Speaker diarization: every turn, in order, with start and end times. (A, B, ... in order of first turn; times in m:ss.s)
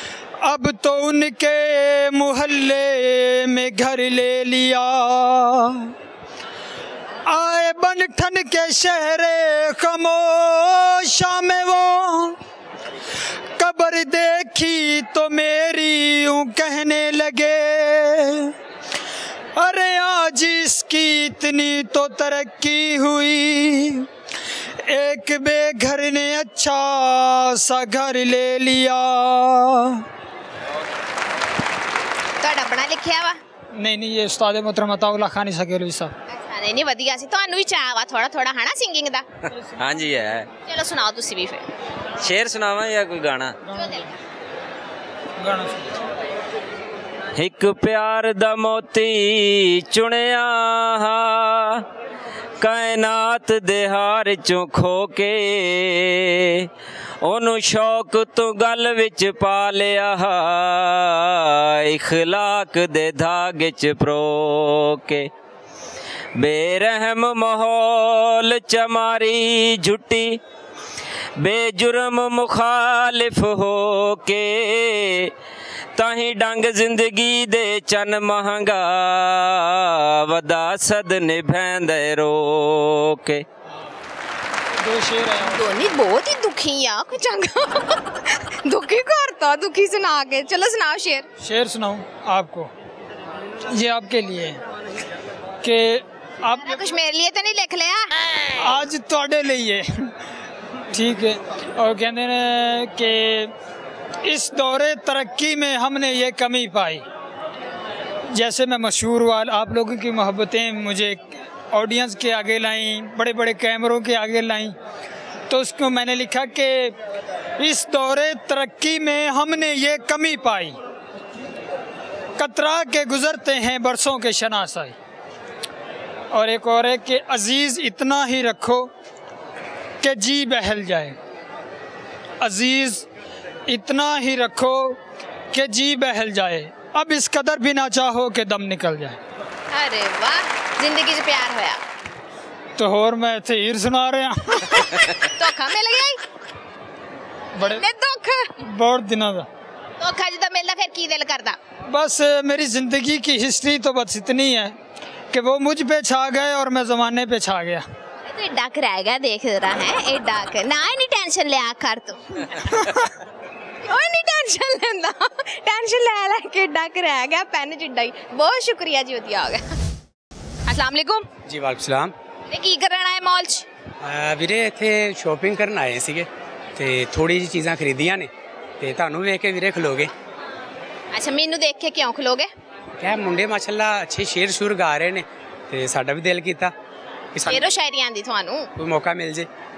0:00.4-0:05.9 A
0:07.3-0:12.4 A
0:13.6-0:18.5 A
0:19.6-0:24.1 A
0:24.8-0:30.0 A
0:32.4-0:33.4 B
0:33.7-0:36.1 A
0:36.3-0:39.2 B
0:39.8-0:40.5 C
0:40.6-0:41.7 B
0:42.2-0:43.6 C
0:43.7-0:44.1 B
0:45.4-0:45.9 A
0:47.4-0:51.8 C
0:52.6-0:56.7 C
0:57.2-1:05.3 C
1:06.4-1:10.4 C
1:11.4-1:15.3 C
1:16.0-1:23.4 C
1:24.8-1:25.6 A
1:25.4-1:31.3 B
1:31.4-1:32.7 A
1:33.7-1:34.6 A
1:35.6-1:36.8 A
1:36.6-1:38.2 B
1:38.6-1:40.1 A
1:40.9-1:43.5 A
1:44.2-1:47.0 A
1:48.3-1:54.8 A
1:55.5-1:57.0 A
1:57.6-2:00.8 A
2:02.4-2:05.0 A
2:06.3-2:08.9 A
2:10.0-2:11.2 A
2:12.4-2:13.1 A
2:13.7-2:15.0 A
2:15.5-2:19.2 A
2:19.7-2:21.8 B
2:22.8-2:25.0 A
2:25.1-2:26.2 B
2:27.6-2:27.8 A
2:27.6-2:28.6 B
2:28.6-2:29.5 A
2:30.0-2:31.6 B
2:31.9-2:34.8 A
2:35.3-2:37.8 A
2:38.2-2:43.0 B
2:43.8-2:49.8 B
2:50.7-2:51.3 B
2:51.5-2:52.1 D
2:52.5-2:53.7 B
2:54.0-3:00.1 D
3:01.1-3:02.5 B
3:03.0-3:06.7 D
3:07.3-3:07.7 D
3:07.5-3:08.7 B
3:08.8-3:09.5 D